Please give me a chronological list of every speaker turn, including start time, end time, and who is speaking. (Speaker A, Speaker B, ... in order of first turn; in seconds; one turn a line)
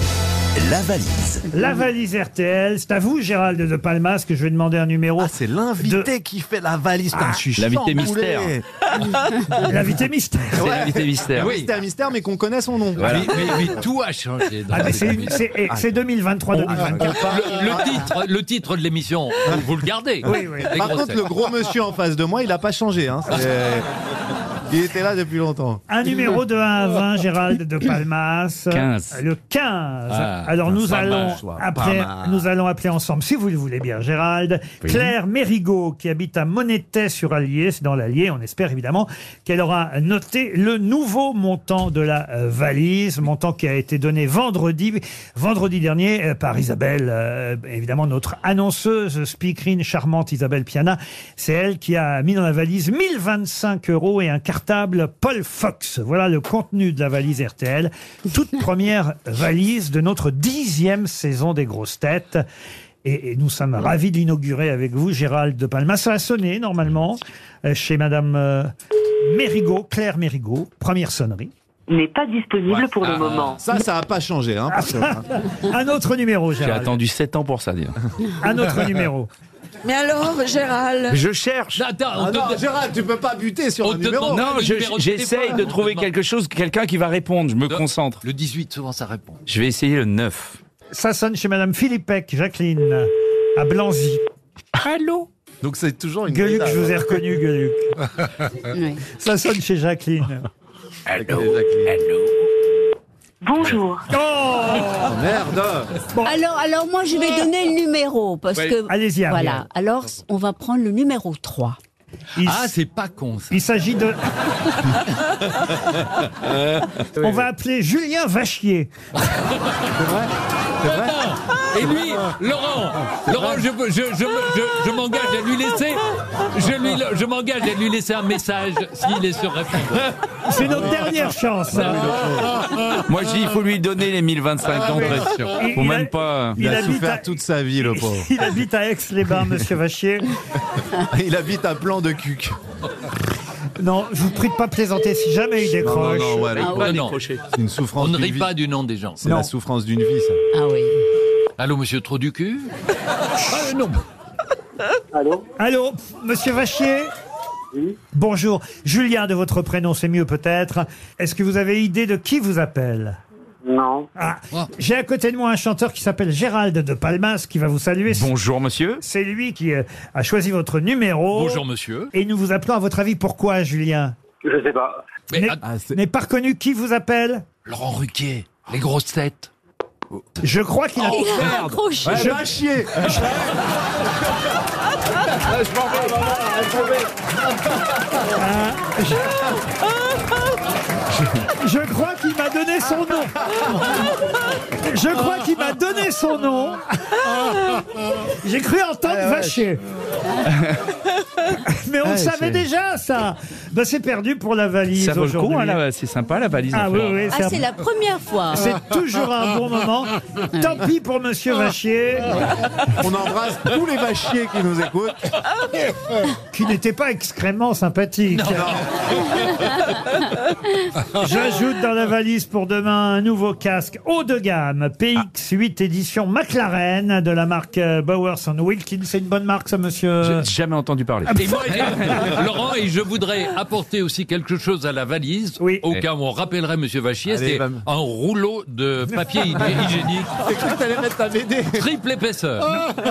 Speaker A: 0.6-1.4
Speaker B: 1.5-6.1
Speaker A: 5.2-8.7
Speaker C: 7.2-8.6
Speaker B: 9.4-10.9
Speaker A: 10.6-13.5
Speaker C: 10.6-11.6
Speaker C: 13.0-13.4
Speaker D: 13.0-15.4
Speaker B: 14.7-17.8
Speaker A: 16.7-17.0
Speaker D: 16.8-21.3
Speaker B: 20.2-20.7
Speaker A: 20.6-23.9
Speaker A: 24.7-25.8
Speaker B: 25.9-62.4
Speaker C: 28.7-29.2
Speaker D: 30.1-31.4
Speaker A: 30.9-32.5
Speaker C: 34.8-35.1
Speaker B: 63.0-68.7
Speaker B: 69.2-71.5
Speaker E: 71.9-73.6
Speaker D: 72.7-73.6
Speaker A: 73.6-75.3
Speaker B: 74.7-77.0
Speaker C: 76.6-78.0
Speaker B: 78.4-79.3
Speaker F: 79.8-81.2
Speaker C: 81.1-81.8
Speaker D: 81.7-82.7
Speaker A: 82.1-84.5
Speaker D: 83.8-86.1
Speaker C: 84.3-88.2
Speaker D: 87.7-89.4
Speaker C: 89.5-90.6
Speaker B: 90.9-94.2
Speaker C: 94.8-95.3
Speaker A: 95.6-97.1
Speaker B: 96.3-97.9
Speaker F: 98.7-99.0
Speaker B: 99.1-100.5
Speaker C: 101.1-102.3
Speaker A: 101.1-101.9
Speaker E: 103.4-104.1
Speaker B: 104.1-105.2
Speaker A: 105.0-105.9
Speaker B: 106.1-106.4
Speaker F: 106.2-111.8
Speaker B: 108.9-109.6
Speaker B: 112.4-112.7
Speaker D: 112.4-113.5
Speaker B: 113.5-115.0
Speaker B: 117.2-118.9
Speaker A: 120.0-121.1
Speaker D: 120.9-130.2
Speaker A: 123.3-123.6
Speaker B: 130.4-132.3
Speaker D: 131.7-132.2
Speaker C: 133.1-136.6
Speaker B: 134.8-140.3
Speaker A: 136.6-138.3
Speaker A: 141.0-142.6
Speaker B: 143.8-146.6
Speaker A: 145.8-147.0
Speaker F: 146.5-147.0
Speaker C: 146.7-147.4
Speaker D: 146.8-147.2
Speaker A: 147.5-148.5
Speaker D: 148.0-149.2
Speaker A: 149.2-150.4
Speaker B: 149.2-149.5
Speaker F: 150.5-151.0
Speaker D: 151.6-152.7
Speaker D: 153.4-154.0
Speaker E: 155.1-155.4
Speaker B: 155.6-157.1
Speaker B: 158.1-163.2
Speaker E: 163.7-164.1
Speaker B: 164.2-168.3
Speaker C: 168.1-169.0
Speaker B: 169.0-174.2
Speaker D: 171.3-172.1
Speaker E: 174.4-175.0
Speaker D: 175.3-175.6
Speaker B: 175.3-177.5
Speaker A: 175.6-176.0
Speaker D: 177.7-179.5
Speaker B: 180.4-183.3
Speaker F: 181.0-182.3
Speaker A: 182.0-183.4
Speaker C: 185.5-186.2
Speaker B: 188.3-189.2
Speaker B: 191.4-193.5
Speaker B: 194.7-197.8
Speaker B: 198.4-199.8
Speaker A: 199.1-199.6
Speaker C: 200.4-200.8
Speaker B: 201.6-205.8
Speaker C: 202.1-202.6
Speaker C: 204.9-207.2
Speaker B: 206.7-207.7
Speaker F: 207.3-208.7
Speaker B: 208.5-212.6
Speaker F: 210.5-210.8
Speaker A: 213.0-215.3
Speaker B: 216.5-218.8
Speaker D: 218.4-218.8
Speaker A: 218.5-218.8
Speaker B: 221.1-230.5
Speaker C: 230.2-231.9
Speaker D: 231.4-240.3
Speaker B: 235.6-235.9
Speaker A: 237.3-237.8
Speaker A: 239.8-241.9
Speaker D: 241.8-242.9